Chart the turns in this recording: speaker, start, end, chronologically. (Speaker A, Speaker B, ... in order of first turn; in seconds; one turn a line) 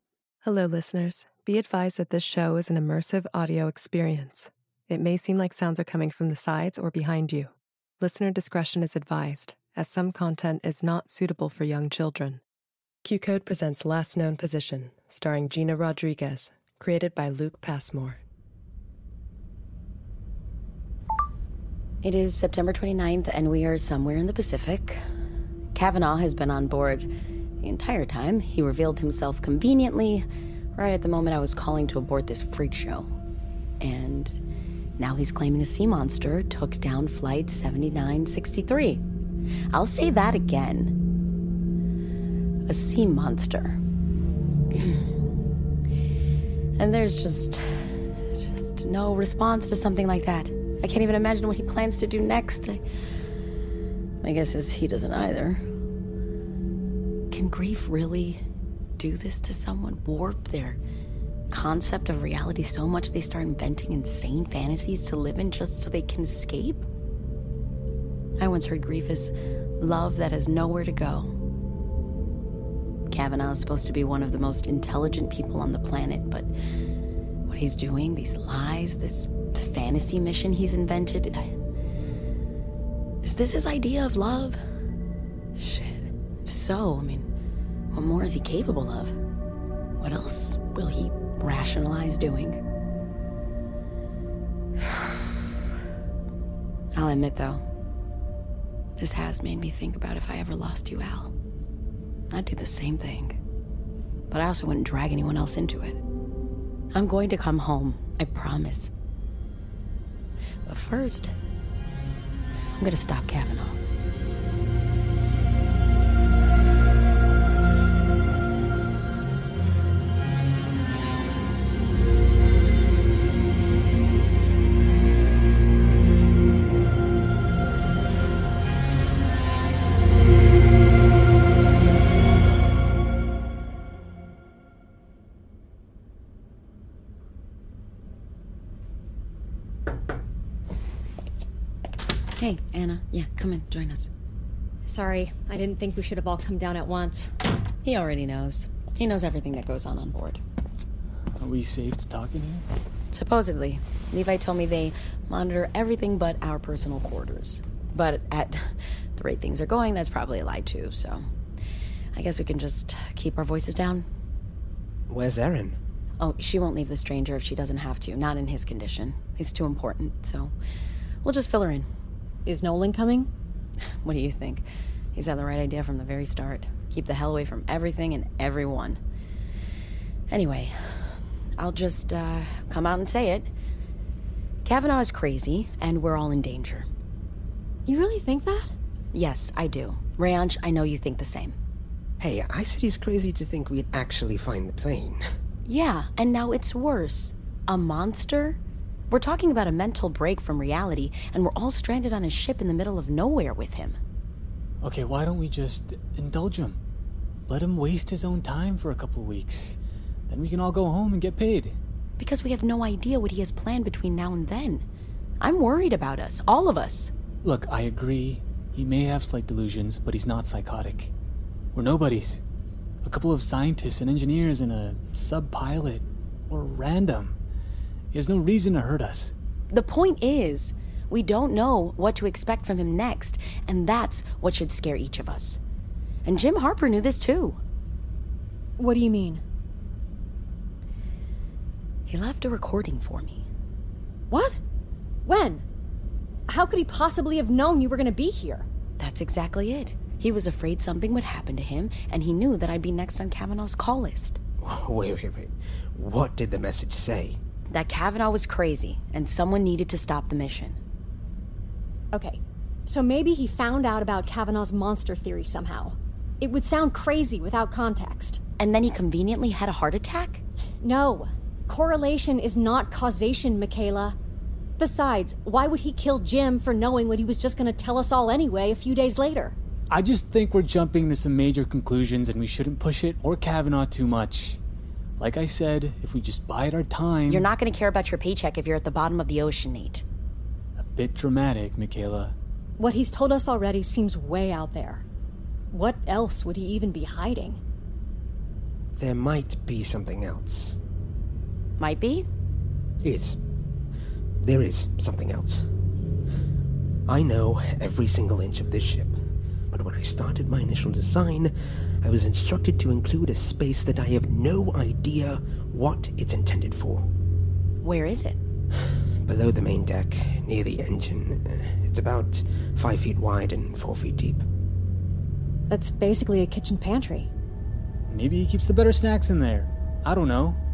Speaker A: 0.4-12.4
Speaker A: 13.0-18.2
Speaker B: 22.0-25.0
Speaker B: 25.8-27.1
Speaker B: 27.6-33.1
Speaker B: 33.8-34.4
Speaker B: 35.0-39.0
Speaker B: 39.7-40.9
Speaker B: 42.7-43.8
Speaker B: 44.7-45.1
Speaker B: 46.8-52.8
Speaker B: 54.2-55.6
Speaker B: 57.3-58.4
Speaker B: 59.0-60.8
Speaker B: 61.5-66.8
Speaker B: 68.4-71.3
Speaker B: 73.1-76.5
Speaker B: 77.5-81.5
Speaker B: 83.2-84.6
Speaker B: 85.6-87.3
Speaker B: 87.9-89.2
Speaker B: 90.0-92.6
Speaker B: 94.8-95.1
Speaker B: 97.0-97.6
Speaker B: 99.0-101.3
Speaker B: 102.3-103.4
Speaker B: 104.3-106.0
Speaker B: 106.9-108.9
Speaker B: 110.7-111.3
Speaker B: 112.8-113.8
Speaker B: 142.4-144.1
Speaker C: 144.9-147.3
Speaker B: 147.8-150.4
Speaker D: 151.4-152.7
Speaker B: 153.1-161.3
Speaker B: 162.1-164.1
Speaker E: 165.1-165.8
Speaker B: 166.2-170.5
Speaker B: 171.2-171.9
Speaker C: 172.5-173.3
Speaker B: 174.0-179.0
Speaker B: 180.3-183.5
Speaker B: 184.6-186.9
Speaker C: 187.9-188.7
Speaker B: 189.1-191.6
Speaker E: 192.2-195.2
Speaker B: 195.7-198.6
Speaker B: 199.1-204.0
Speaker D: 204.8-206.8
Speaker D: 207.5-211.8
Speaker B: 212.2-214.8
Speaker B: 215.4-217.1
Speaker D: 217.4-221.1
Speaker D: 221.7-222.4
Speaker D: 223.0-227.4
Speaker D: 228.1-229.3
Speaker B: 229.7-235.6
Speaker B: 236.2-237.6
Speaker C: 238.8-239.4
Speaker B: 242.1-243.5
Speaker C: 244.3-244.6
Speaker C: 245.3-245.7
Speaker C: 246.5-248.7
Speaker B: 249.0-254.4
Speaker E: 254.6-257.4
Speaker B: 257.7-260.8
Speaker C: 262.1-268.4
Speaker B: 268.6-270.4
Speaker C: 270.8-274.2
Speaker C: 274.8-279.6
Speaker D: 279.9-284.6
Speaker D: 285.2-287.5
Speaker B: 287.3-290.0
Speaker D: 290.8-292.4
Speaker C: 292.8-295.1
Speaker C: 295.7-297.6
Speaker E: 299.0-300.8
Speaker B: 301.8-302.3
Speaker E: 303.0-303.4
Speaker E: 304.4-305.7
Speaker E: 307.1-309.2
Speaker E: 309.7-317.1
Speaker B: 317.8-318.4
Speaker E: 319.2-324.4
Speaker C: 325.7-327.3
Speaker D: 328.1-330.6